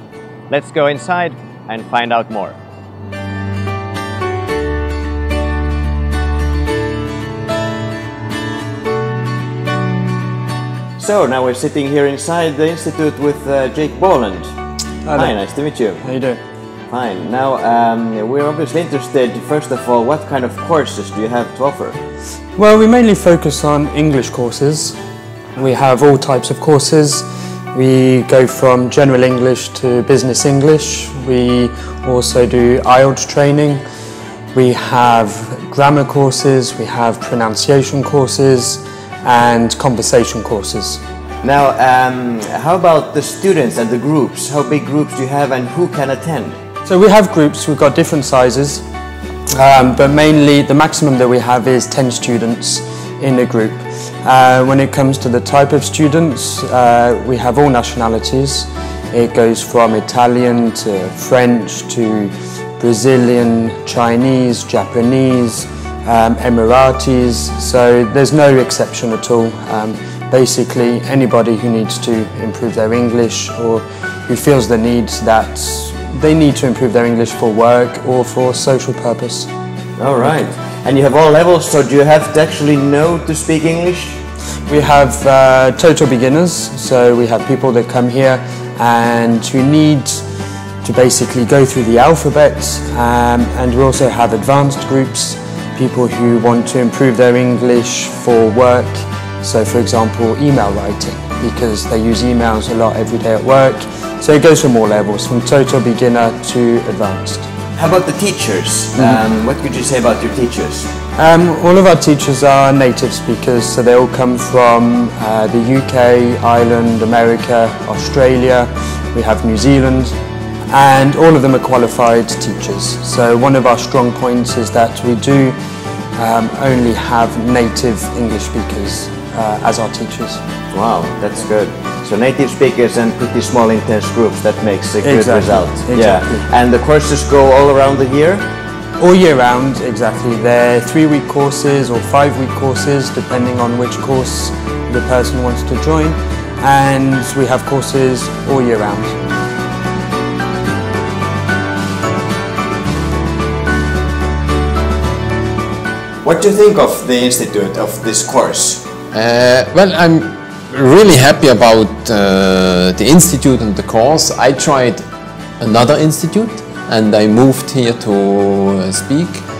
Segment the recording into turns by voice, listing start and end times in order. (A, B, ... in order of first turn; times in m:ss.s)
0:00.5-0:02.6 A
0:11.0-0:14.5 A
0:15.0-0:15.4 B
0:15.1-0:16.0 A
0:16.0-0:16.4 B
0:16.9-0:22.0 A
0:22.6-0:25.0 B
0:25.6-0:33.8 B
0:34.5-0:41.0 B
0:41.4-0:46.6 A
0:46.8-0:48.8 B
0:49.5-1:19.5 B
1:20.0-1:24.2 A
1:24.7-1:30.2 B
1:30.8-1:47.5 B
1:47.8-1:50.9 A
1:51.2-2:00.1 B
2:00.7-2:05.6 B
2:06.2-2:10.4 B
2:10.7-2:18.5 A
2:15.0-2:16.5 B
2:19.0-2:29.2 B
2:36.2-2:38.8 A
2:39.1-2:45.0 C
2:45.6-2:49.4 C